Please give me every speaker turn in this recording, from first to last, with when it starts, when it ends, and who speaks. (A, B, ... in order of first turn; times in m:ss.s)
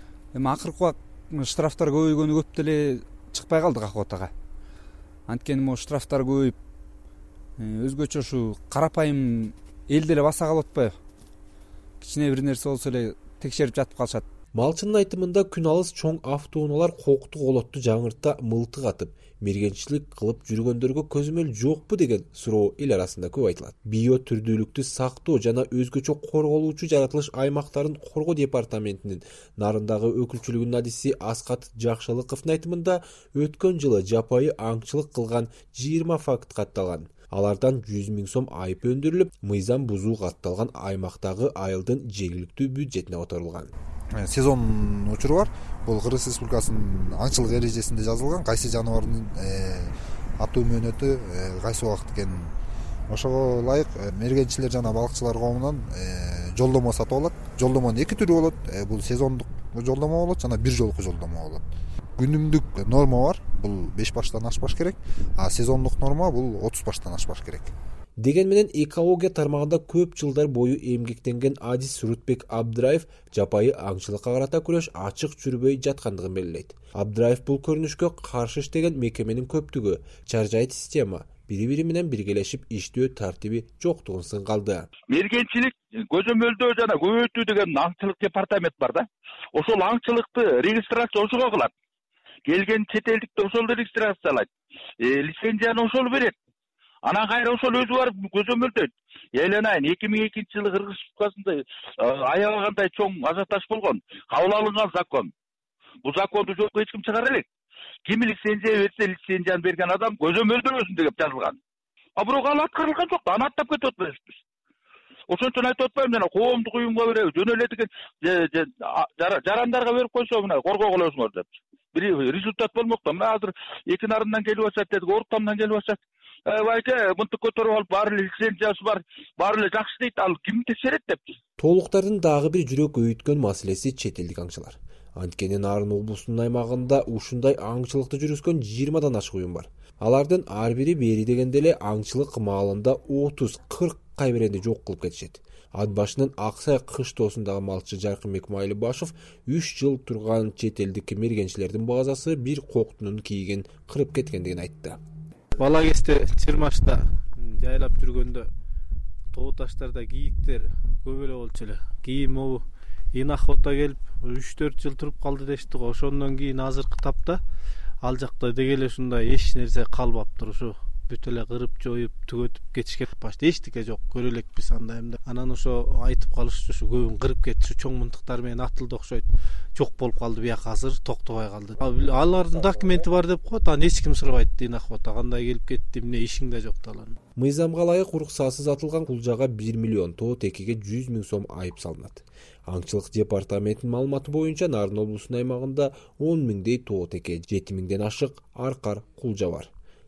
0:00.3-0:04.3 A
0:05.3-0:06.6 A
0:07.6-0:11.0 A
0:12.0-0:14.2 A
0:14.5-0:43.7 B
0:44.2-0:52.5 C
0:53.1-1:01.6 C
1:02.2-1:07.7 C
1:08.2-1:24.9 B
1:25.1-1:31.7 D
1:32.5-1:36.4 D
1:37.0-1:45.3 D
1:46.0-1:47.4 D
1:48.1-1:51.6 D
1:52.2-1:54.4 D
1:55.3-2:11.2 D
2:11.6-2:35.0 B
2:35.6-2:38.5 E
2:39.3-2:47.4 E
2:48.0-3:07.2 E
3:07.4-3:19.7 B